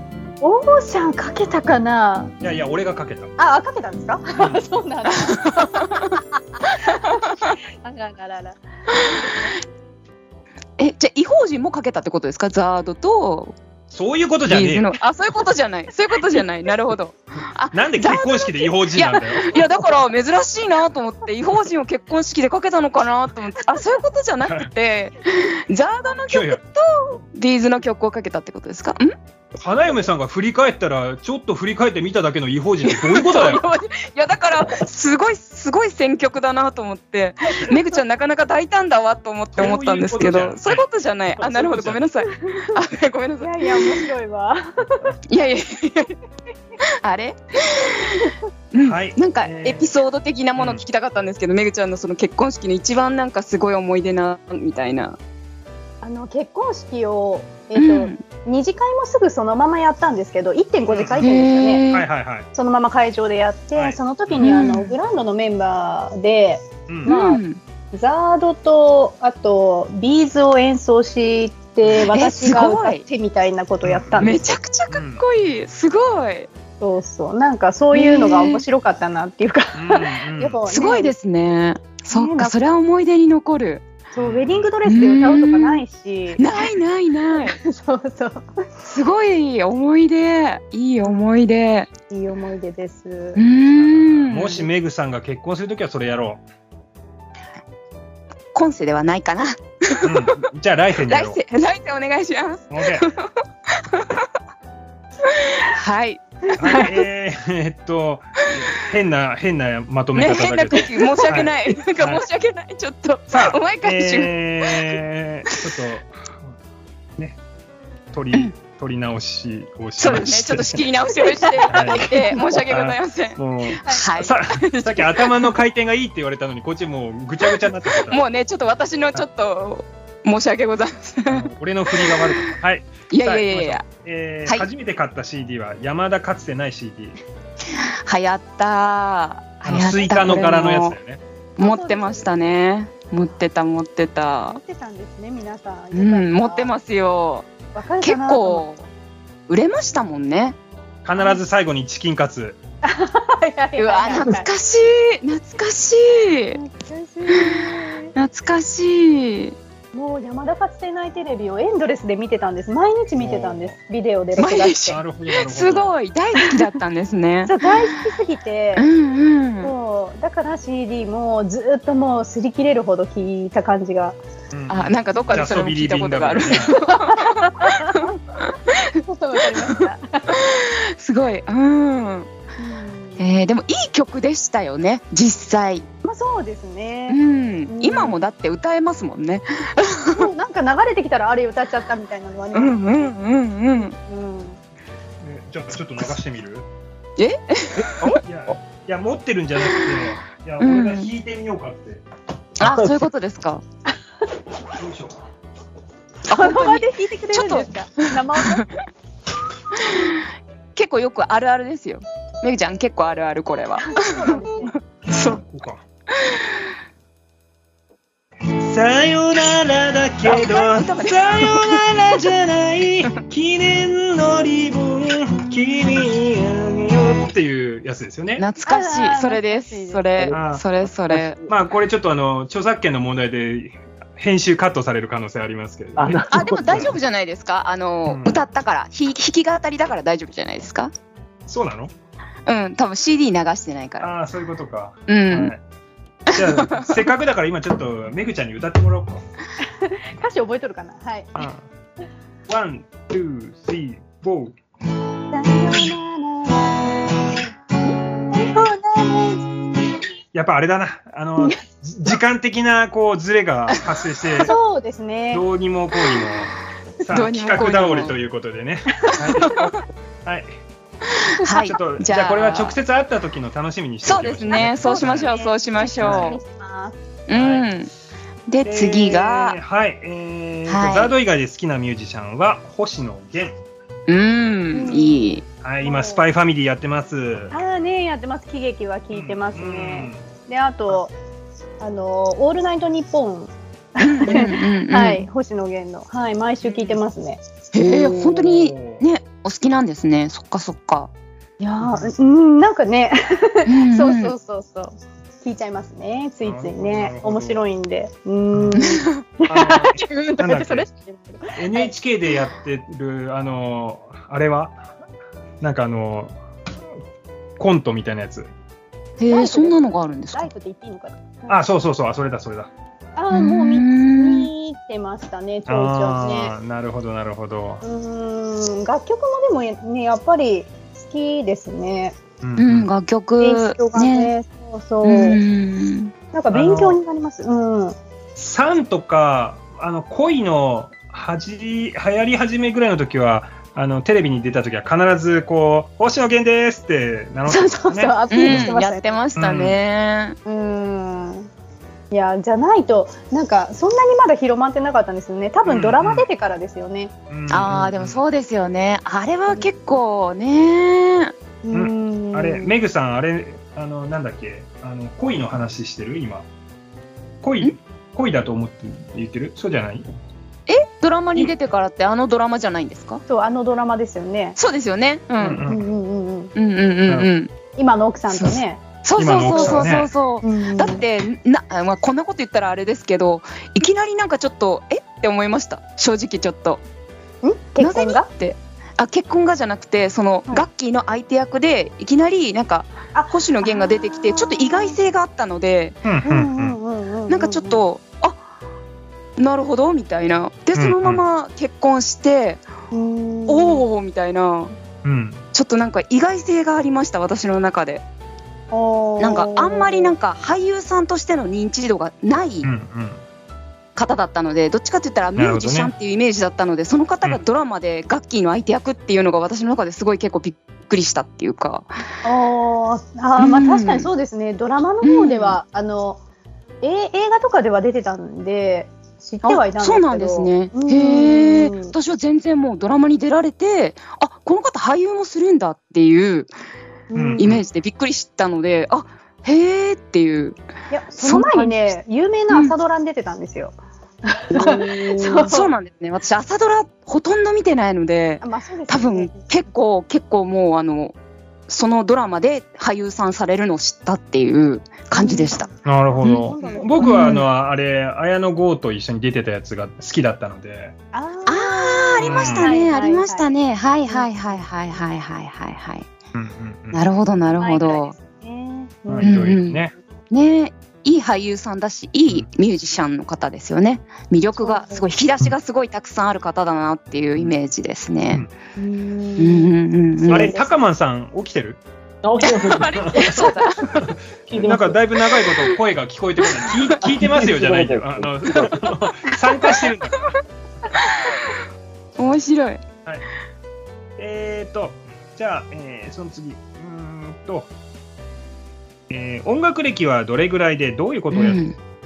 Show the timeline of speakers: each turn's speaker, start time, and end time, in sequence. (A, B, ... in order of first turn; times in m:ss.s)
0:00.4-0:02.3 A
0:02.4-0:03.3 B
0:03.4-0:09.5 A
0:04.4-0:04.6 B
0:05.1-0:06.0 C
0:10.8-0:13.6 C
0:13.9-0:14.9 B
0:14.5-0:29.1 C
0:17.7-0:19.6 B
0:26.3-0:26.6 B
0:29.6-0:33.6 B
0:32.8-0:44.1 C
0:39.6-0:40.8 B
0:41.4-0:42.0 B
0:42.3-0:42.8 A
0:43.4-0:45.2 A
0:45.3-0:46.1 C
0:47.0-0:55.2 C
0:48.8-0:49.9 B
0:50.6-0:50.8 B
0:56.0-1:01.8 A
0:57.8-0:58.2 C
1:00.9-1:01.2 B
1:01.2-1:02.0 C
1:01.9-1:02.5 B
1:02.5-1:07.4 A
1:03.8-1:04.5 B
1:04.4-1:05.0 C
1:07.1-1:07.6 C
1:07.9-1:14.6 A
1:12.1-1:13.1 C
1:13.8-1:14.3 B
1:14.2-1:16.5 C
1:14.9-1:15.2 B
1:16.8-1:21.1 A
1:17.9-1:18.6 C
1:19.8-1:20.6 B
1:20.7-1:23.9 C
1:22.1-1:22.6 A
1:24.1-1:26.7 A
1:24.2-1:24.7 B
1:24.8-1:25.8 C
1:26.4-1:27.6 C
1:27.3-1:28.5 A
1:28.8-1:31.9 C
1:32.1-1:33.4 A
1:33.4-1:34.7 C
1:33.7-1:36.4 B
1:38.5-1:40.3 C
1:40.0-1:41.4 B
1:41.1-1:44.2 C
1:42.7-1:43.1 B
1:45.3-1:46.8 C
1:46.6-1:52.2 B
1:46.6-1:47.0 A
1:50.2-1:55.0 C
1:53.3-1:56.5 B
1:58.1-2:00.8 B
2:00.0-2:05.5 C
2:01.2-2:02.4 A
2:01.7-2:08.2 B
2:08.1-2:11.4 C
2:11.3-2:17.2 B
2:12.0-2:12.5 C
2:13.1-2:13.9 C
2:17.7-2:21.0 C
2:19.7-2:21.2 B
2:21.6-2:22.3 A
2:21.6-2:24.6 C
2:24.5-2:26.7 A
2:25.9-2:27.5 C
2:27.7-2:28.6 A
2:28.0-2:28.9 C
2:29.5-2:30.6 C
2:31.0-2:32.6 B
2:32.8-2:34.5 A
2:33.8-2:36.6 C
2:36.5-2:38.1 A
2:37.3-2:39.6 C
2:39.9-2:45.0 A
2:43.2-2:43.8 B
2:44.4-2:47.6 C
2:44.9-2:45.9 B
2:47.5-2:48.9 A
2:48.8-2:49.7 C
2:49.6-2:54.2 A
2:54.5-2:56.7 B
2:54.7-2:58.9 C
2:56.9-2:58.1 A
2:59.0-3:00.3 A
3:00.4-3:02.3 C
3:02.6-3:03.3 A
3:03.2-3:05.8 C
3:06.0-3:08.2 A
3:07.1-3:10.2 C
3:10.1-3:13.1 A
3:12.5-3:13.9 C
3:14.0-3:14.6 A
3:15.2-3:16.7 B
3:17.2-3:18.2 C
3:17.8-3:18.2 D
3:18.2-3:22.0 B
3:20.6-3:21.1 C
3:22.6-3:23.6 C
3:22.6-3:22.9 D
3:24.8-3:25.2 B
3:26.3-3:27.7 C
3:26.3-3:28.6 A
3:28.4-3:28.7 C
3:29.8-3:30.2 C
3:30.8-3:35.4 C
3:33.9-3:34.7 A
3:35.1-3:35.8 B
3:38.6-3:48.4 B
3:40.2-3:42.2 C
3:48.4-3:51.4 C
3:48.7-3:50.0 A
3:50.3-3:50.7 B
3:51.1-3:51.5 D
3:51.5-3:56.9 B
3:56.0-3:56.9 D
3:56.3-4:00.9 C
3:58.1-3:58.4 B
4:01.5-4:01.9 B
4:02.5-4:04.1 C
4:04.0-4:05.6 B
4:05.1-4:05.5 C
4:06.3-4:09.2 B
4:06.3-4:06.8 C
4:09.6-4:11.3 A
4:11.4-4:11.6 B
4:12.5-4:14.6 B
4:15.3-4:16.9 A
4:18.3-4:19.6 A
4:20.3-4:24.5 B
4:24.4-4:25.4 A
4:25.3-4:30.5 B
4:27.1-4:28.2 C
4:31.1-4:32.8 C
4:31.5-4:31.7 A
4:31.6-4:35.3 B
4:34.0-4:36.4 C
4:34.5-4:37.0 A
4:36.0-4:36.3 B
4:37.3-4:37.9 C
4:37.3-4:37.7 B
4:38.5-4:39.6 C
4:38.6-4:43.6 B
4:40.7-4:41.2 C
4:44.1-4:45.4 C
4:44.7-4:46.2 A
4:45.6-4:47.6 B
4:47.5-4:51.1 A
4:49.1-4:50.2 B
4:51.8-4:58.4 A
4:54.0-4:55.3 C
4:56.6-4:57.0 B
4:57.7-5:01.1 C
4:58.4-4:59.0 B
5:01.6-5:11.9 A
5:01.8-5:02.1 B
5:03.7-5:04.3 C
5:06.4-5:07.6 B
5:08.5-5:08.8 B
5:08.8-5:09.2 C
5:09.5-5:10.9 B
5:11.6-5:14.8 B
5:15.6-5:16.4 B
5:17.6-5:18.5 B
5:19.2-5:20.5 C
5:19.3-5:19.8 A
5:20.3-5:21.6 A
5:21.5-5:22.7 B
5:23.2-5:26.5 A
5:23.3-5:24.5 C
5:25.7-5:27.8 B
5:27.8-5:32.2 A
5:32.4-5:32.9 B
5:32.6-5:34.3 C
5:33.4-5:35.4 A
5:35.0-5:36.1 C
5:36.3-5:38.0 A
5:36.5-5:37.0 B
5:38.4-5:48.7 B
5:47.5-5:49.2 A
5:48.3-5:50.4 C
5:49.4-5:49.8 B
5:50.4-5:51.5 A
5:52.1-5:57.1 A
5:55.7-5:56.3 B
5:57.3-5:58.2 B
5:57.5-6:01.3 C
6:01.6-6:02.7 A
6:01.7-6:06.5 B
6:07.4-6:10.0 B
6:10.7-6:13.2 C
6:13.3-6:14.6 A
6:14.6-6:15.6 C
6:15.4-6:15.8 B
6:15.7-6:16.5 A
6:16.6-6:17.5 C
6:17.8-6:18.8 A
6:18.3-6:26.8 C
6:19.2-6:20.1 B
6:19.5-6:19.9 A
6:20.4-6:21.0 A
6:27.4-6:28.3 A
6:27.8-6:36.0 C
6:33.2-6:35.0 A
6:36.0-6:36.8 B
6:36.2-6:37.8 A
6:37.3-6:38.4 C
6:39.4-6:42.6 C
6:40.8-6:41.2 B
6:42.9-6:43.8 A
6:43.5-6:44.8 C
6:45.0-6:45.4 B
6:45.5-6:48.0 C
6:48.7-6:50.1 A
6:49.2-6:52.7 C
6:52.6-6:53.2 B
6:54.0-7:01.9 C
6:55.4-6:55.9 B
7:02.2-7:06.2 A
7:03.4-7:04.1 C
7:05.0-7:05.6 C
7:06.8-7:11.9 A
7:09.4-7:16.5 C
7:17.1-7:17.4 A
7:17.1-7:17.6 B
7:17.4-7:20.6 C
7:20.9-7:25.7 A
7:21.2-7:22.0 C
7:24.6-7:31.1 C
7:28.4-7:29.5 A
7:31.7-7:35.7 C
7:35.1-7:37.4 A
7:35.8-7:41.0 B
7:36.2-7:37.4 C
7:41.1-7:43.5 A
7:41.5-7:46.1 C
7:42.2-7:42.7 B
7:44.1-7:44.6 A
7:46.3-7:47.0 B
7:46.9-7:48.1 C
7:47.6-7:49.3 A
7:49.1-7:49.9 B
7:49.2-7:49.8 C
7:50.3-7:58.4 C
7:54.6-7:55.0 A
7:58.8-8:00.7 A
7:59.4-8:00.6 C
8:00.3-8:01.8 B
8:02.2-8:03.2 D
8:02.4-8:04.1 C
8:03.0-8:03.4 B
8:04.0-8:10.2 B
8:04.5-8:05.0 D
8:07.2-8:08.8 D
8:12.2-8:12.8 C
8:14.2-8:17.7 B
8:19.1-8:21.6 B
8:21.3-8:21.8 C